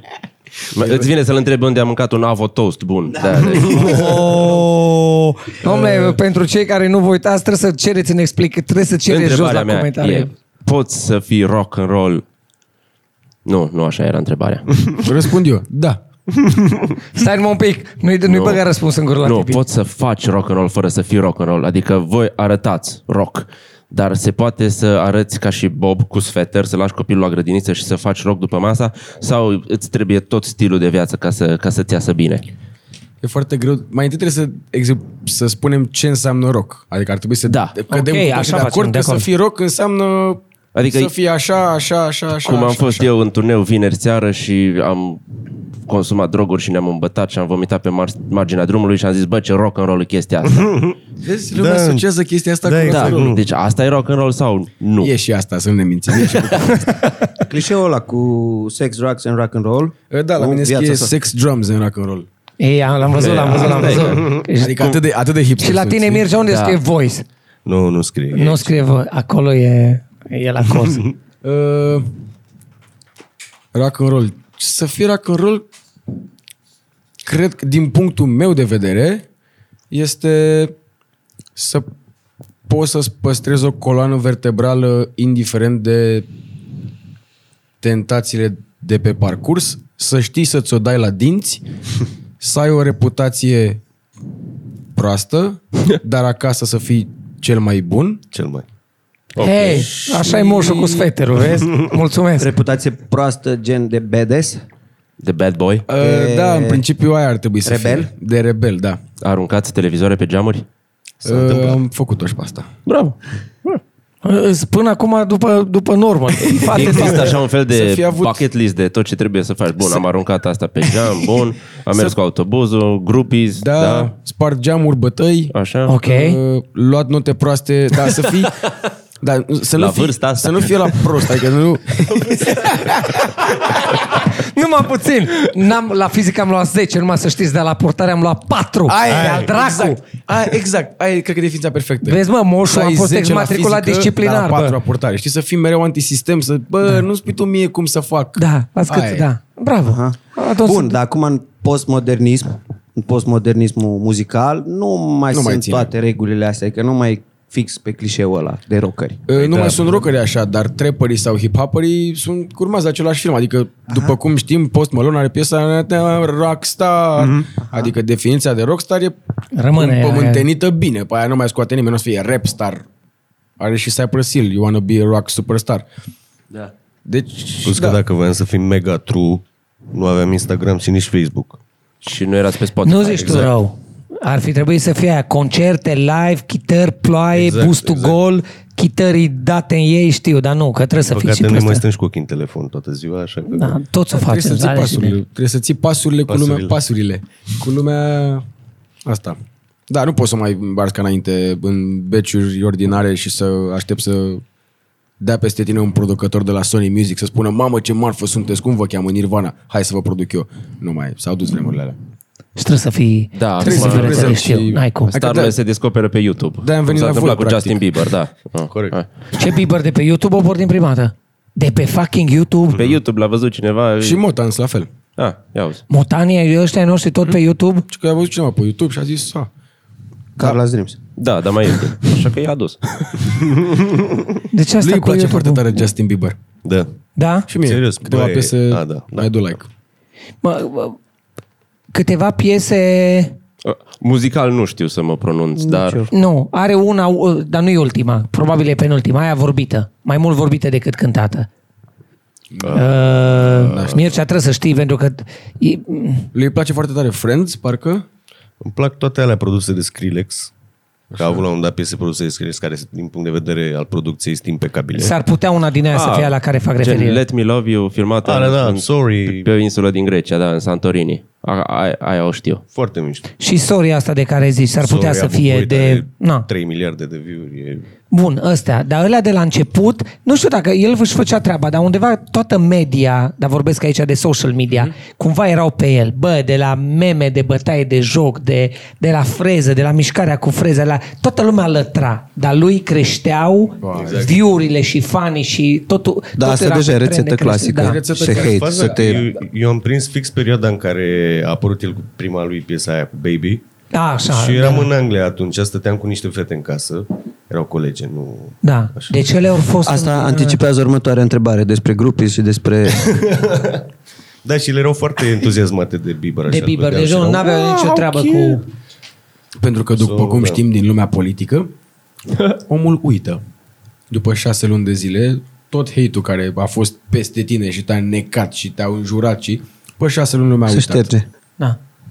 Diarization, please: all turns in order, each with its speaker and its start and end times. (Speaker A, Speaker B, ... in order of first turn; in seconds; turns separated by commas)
Speaker A: 0.7-1.1, Speaker B: 0.7-4.1, Speaker C: 3.3-4.7, Speaker A: 3.6-3.9, Speaker D: 3.8-10.3, Speaker A: 5.6-6.2, Speaker B: 9.1-12.2, Speaker B: 13.4-15.0, Speaker A: 15.0-16.0, Speaker D: 17.1-19.6, Speaker B: 18.2-18.6, Speaker B: 19.2-32.5, Speaker A: 33.2-43.1, Speaker B: 37.5-37.8, Speaker D: 37.9-39.3, Speaker B: 40.8-41.1, Speaker B: 42.4-45.2, Speaker B: 45.9-50.8, Speaker E: 50.6-50.9, Speaker A: 51.2-53.3, Speaker E: 51.5-52.0, Speaker E: 52.6-53.4, Speaker B: 52.9-55.1, Speaker A: 55.0-57.0, Speaker C: 57.5-61.1, Speaker A: 60.1-62.3, Speaker D: 62.6-64.9, Speaker B: 63.2-64.4, Speaker A: 63.3-66.3, Speaker D: 65.6-67.2, Speaker B: 66.5-66.8, Speaker E: 67.6-68.7, Speaker D: 68.3-71.1, Speaker A: 71.4-72.1, Speaker A: 73.7-75.6, Speaker A: 77.2-79.2, Speaker A: 79.9-80.7, Speaker A: 81.5-81.9, Speaker A: 82.7-86.3, Speaker A: 87.8-91.6, Speaker A: 92.4-93.8, Speaker A: 94.9-98.2, Speaker E: 98.3-98.7, Speaker D: 99.4-102.5, Speaker E: 99.5-99.8, Speaker A: 100.0-100.8, Speaker C: 102.4-104.6, Speaker B: 105.2-105.8, Speaker A: 105.9-109.0, Speaker C: 106.0-106.8, Speaker C: 107.6-108.1, Speaker B: 109.2-110.7, Speaker E: 111.2-111.8, Speaker A: 111.2-112.7, Speaker B: 112.8-113.2, Speaker D: 114.2-117.3, Speaker A: 116.5-118.4, Speaker B: 116.5-124.1, Speaker A: 123.6-128.7, Speaker B: 125.5-126.0, Speaker D: 125.9-126.4, Speaker A: 129.2-133.3, Speaker B: 129.8-131.4, Speaker D: 133.8-140.0, Speaker A: 138.9-149.3, Speaker E: 139.1-139.5, Speaker D: 142.0-144.8, Speaker D: 148.3-151.0, Speaker C: 149.9-159.2, Speaker A: 155.3-155.9, Speaker A: 159.3-169.2, Speaker E: 159.4-159.9, Speaker D: 169.5-170.4, Speaker A: 169.8-172.8, Speaker A: 173.6-175.8, Speaker A: 177.0-178.0, Speaker E: 177.6-181.6, Speaker B: 182.0-183.5, Speaker D: 182.8-191.8, Speaker E: 187.3-188.2, Speaker E: 191.0-193.8, Speaker D: 193.5-195.2, Speaker A: 194.1-198.4, Speaker E: 196.3-196.8, Speaker A: 199.0-199.4, Speaker A: 199.9-204.4, Speaker A: 205.2-211.9, Speaker D: 212.6-215.1, Speaker B: 213.3-214.4, Speaker A: 213.6-215.5, Speaker B: 215.1-219.1, Speaker A: 216.6-217.8, Speaker E: 218.7-219.0, Speaker D: 219.3-222.8, Speaker B: 222.7-224.2, Speaker A: 224.0-224.9, Speaker B: 225.2-225.8, Speaker D: 225.9-227.8, Speaker A: 227.9-229.5, Speaker C: 230.4-231.0, Speaker B: 231.2-233.3, Speaker D: 234.5-235.6, Speaker A: 234.8-236.3, Speaker E: 236.6-236.9, Speaker D: 237.2-237.5, Speaker A: 237.5-239.7, Speaker E: 237.6-239.3, Speaker D: 240.4-241.0, Speaker D: 241.9-243.3, Speaker B: 243.6-246.1, Speaker C: 245.6-246.1, Speaker D: 246.1-251.5, Speaker A: 252.5-252.8, Speaker E: 252.6-253.9, Speaker D: 252.7-256.3, Speaker A: 253.7-254.0, Speaker A: 256.3-258.0, Speaker E: 258.6-260.5, Speaker A: 261.1-261.4, Speaker E: 261.1-265.1, Speaker D: 264.9-267.2, Speaker B: 265.9-272.6, Speaker E: 268.2-269.5, Speaker E: 272.7-273.3, Speaker D: 273.4-276.5, Speaker E: 274.8-277.9, Speaker D: 278.1-298.0, Speaker A: 293.8-294.3, Speaker E: 293.9-294.4, Speaker C: 296.4-299.3, Speaker A: 297.8-299.1, Speaker E: 298.3-303.6, Speaker D: 303.9-304.9, Speaker E: 304.3-309.1, Speaker D: 308.6-310.6, Speaker C: 309.8-313.1, Speaker E: 313.1-313.8, Speaker E: 314.4-317.5, Speaker D: 316.5-318.6, Speaker A: 318.2-318.5, Speaker A: 319.6-321.7, Speaker E: 320.0-320.6, Speaker A: 322.5-323.4, Speaker A: 324.1-331.1, Speaker C: 330.7-331.2